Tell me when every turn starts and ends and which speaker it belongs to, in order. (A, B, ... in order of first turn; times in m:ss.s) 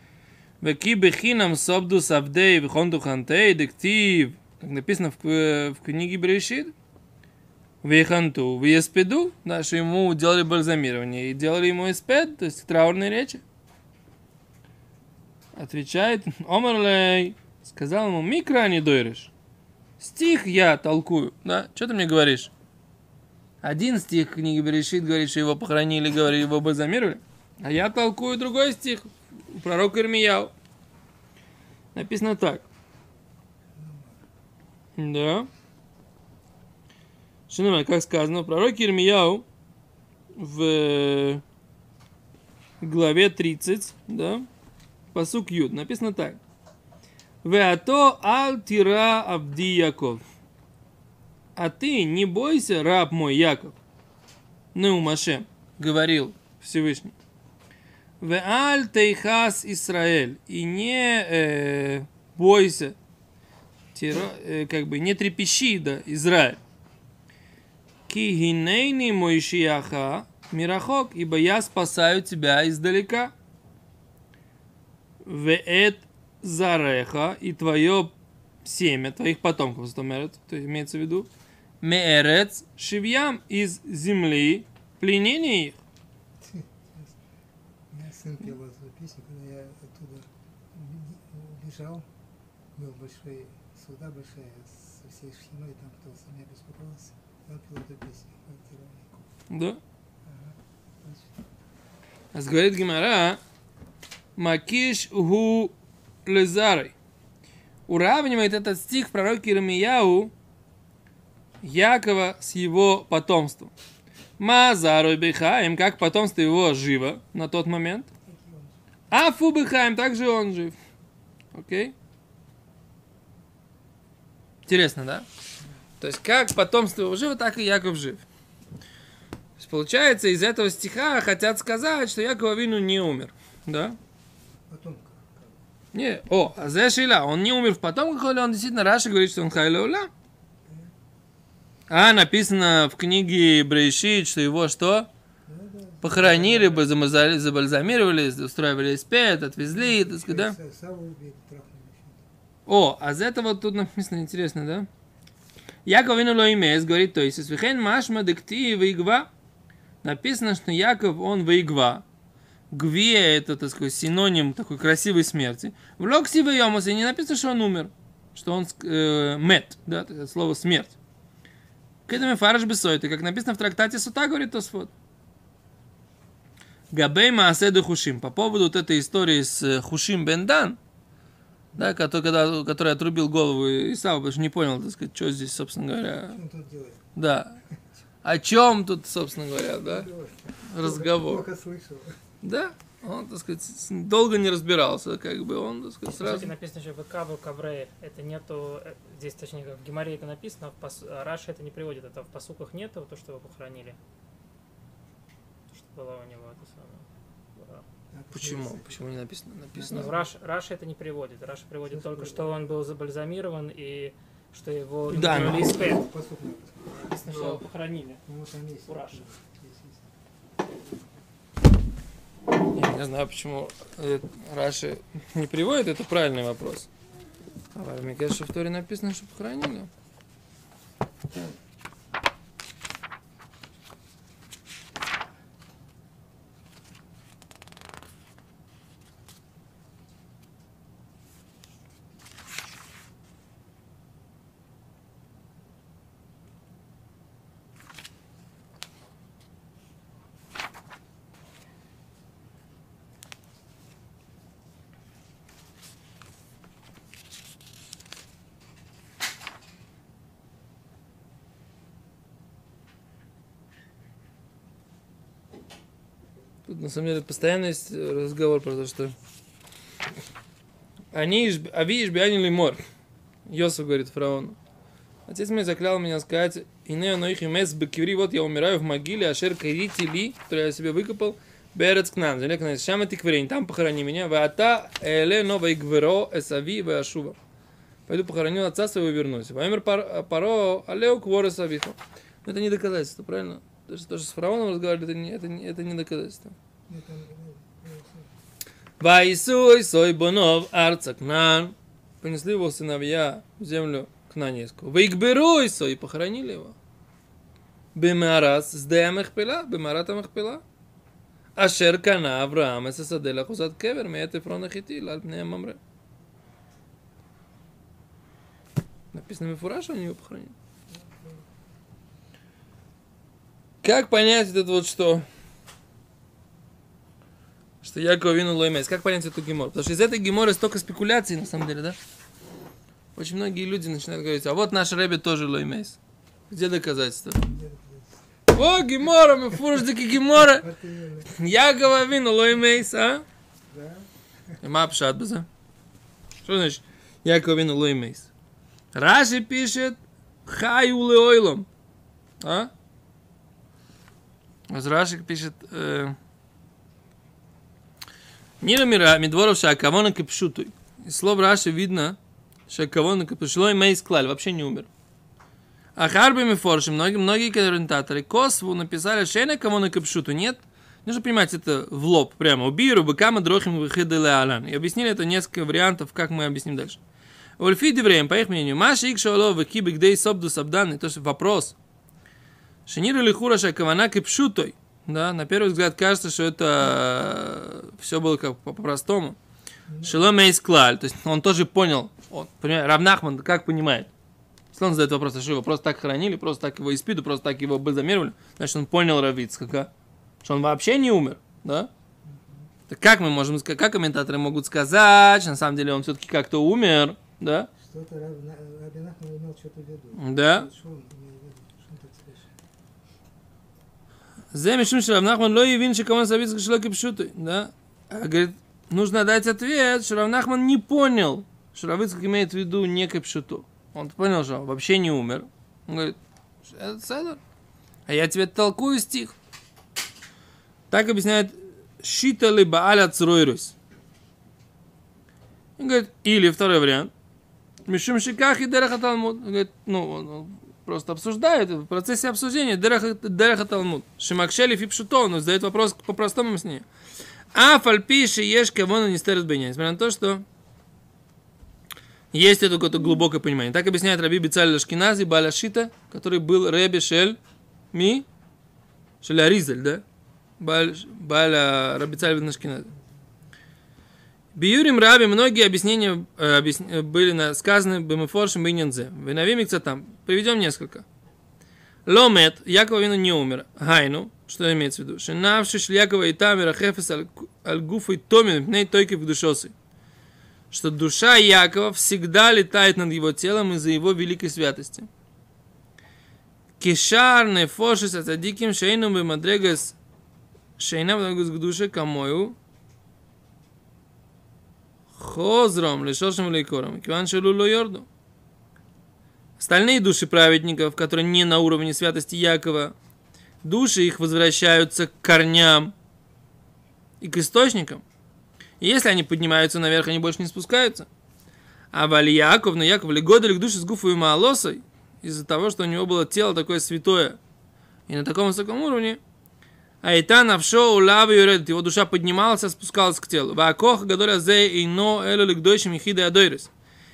0:00.6-0:06.7 A
0:07.8-0:13.4 A
0:15.5-0:19.3 A
0:20.0-0:22.5 A
0:23.6-0:30.5 A
0:31.9-0:32.6 A
0:33.7-0:34.2 B
0:35.0-0:35.5 A
0:37.5-0:39.4 A
0:40.4-0:41.4 A
0:42.8-0:44.4 A
0:45.1-0:46.4 A
0:47.4-0:50.2 A
0:51.6-0:53.7 A
0:54.7-0:57.1 A
0:58.2-1:03.0 A
1:03.9-1:06.6 A
1:08.1-1:13.3 A
1:15.2-1:18.1 A
1:18.6-1:21.3 A
1:21.8-1:25.8 A
1:26.4-1:27.2 B
1:27.9-1:32.1 B
1:32.7-1:39.3 B
1:39.5-1:39.8 A
1:40.2-1:41.4 B
1:42.3-1:43.4 A
1:44.4-1:45.7 A
1:46.2-1:46.9 A
1:47.9-1:50.3 A
1:51.6-1:53.7 A
1:54.4-1:58.1 A
1:58.2-1:58.8 B
1:59.1-2:00.8 A
2:01.5-2:01.9 A
2:04.7-2:05.2 A
2:06.0-2:08.2 A
2:09.6-2:14.0 A
2:14.7-2:15.6 B
2:15.9-2:20.1 A
2:20.6-2:20.9 B
2:21.9-2:25.1 A
2:25.4-2:26.9 B
2:26.0-2:30.6 A
2:29.6-2:32.3 B
2:32.7-2:34.9 A
2:35.8-2:39.3 A
2:40.0-2:42.0 A
2:42.7-2:51.0 A
2:52.1-2:54.9 A
2:56.9-3:00.8 A
3:01.8-3:06.4 A
3:06.2-3:07.0 B
3:07.2-3:07.6 A
3:08.2-3:10.1 A
3:09.6-3:12.2 B
3:10.6-3:11.5 A
3:12.4-3:16.5 A
3:16.1-3:24.0 C
3:25.7-3:27.8 C
3:28.1-3:29.1 B
3:28.3-3:30.1 A
3:29.7-3:30.2 B
3:29.8-3:36.1 C
3:31.9-3:32.6 B
3:35.1-3:35.9 A
3:35.1-3:37.6 B
3:37.0-3:38.2 C
3:37.3-3:37.6 A
3:38.2-3:40.1 B
3:38.9-3:39.2 C
3:42.7-3:46.9 A
3:47.7-3:49.9 A
4:26.6-4:29.1 A
4:31.1-4:32.8 A
4:33.4-4:34.6 A
4:35.3-4:47.4 A
4:48.1-4:56.6 A
4:56.9-4:58.3 B
4:59.0-5:06.7 A
5:07.9-5:10.6 A
5:11.6-5:15.8 A
5:19.1-5:20.5 A
5:20.9-5:21.4 B
5:23.8-5:25.2 A
5:27.8-5:32.0 A
5:33.1-5:36.0 A
5:36.5-5:37.4 A
5:37.4-5:38.6 B
5:38.5-5:40.7 A
5:40.3-5:41.4 B
5:41.3-5:43.2 A
5:43.7-5:44.6 B
5:44.6-5:45.5 A
5:46.4-5:48.3 A
5:48.9-5:51.7 A
5:52.4-5:52.7 A
5:54.7-5:56.2 A
5:58.6-6:04.9 A
6:06.0-6:17.0 A
6:17.6-6:21.8 A
6:22.9-6:29.4 A
6:29.9-6:30.2 B
6:30.0-6:34.1 A
6:34.7-6:39.9 A
6:40.4-6:41.9 A
6:42.2-6:42.7 B
6:42.9-6:47.7 A
6:47.8-6:52.5 B
6:50.2-6:50.7 A
6:54.5-7:07.4 A
7:08.1-7:09.3 A
7:10.9-7:13.7 A
7:15.8-7:17.1 A
7:17.9-7:26.8 A
7:27.5-7:30.4 A
7:32.3-7:37.4 A
7:37.9-7:38.2 A
7:39.2-7:40.0 A
7:40.6-7:42.9 A
7:44.5-7:51.0 A
7:52.0-7:59.7 A
8:00.7-8:05.1 A
8:06.8-8:10.0 A
8:10.8-8:12.6 A
8:15.1-8:18.1 A
8:19.6-8:22.9 A
8:23.6-8:25.9 A
8:27.2-8:28.0 A
8:28.8-8:31.1 A
8:31.9-8:37.4 A
8:38.1-8:39.2 A
8:40.0-8:46.7 A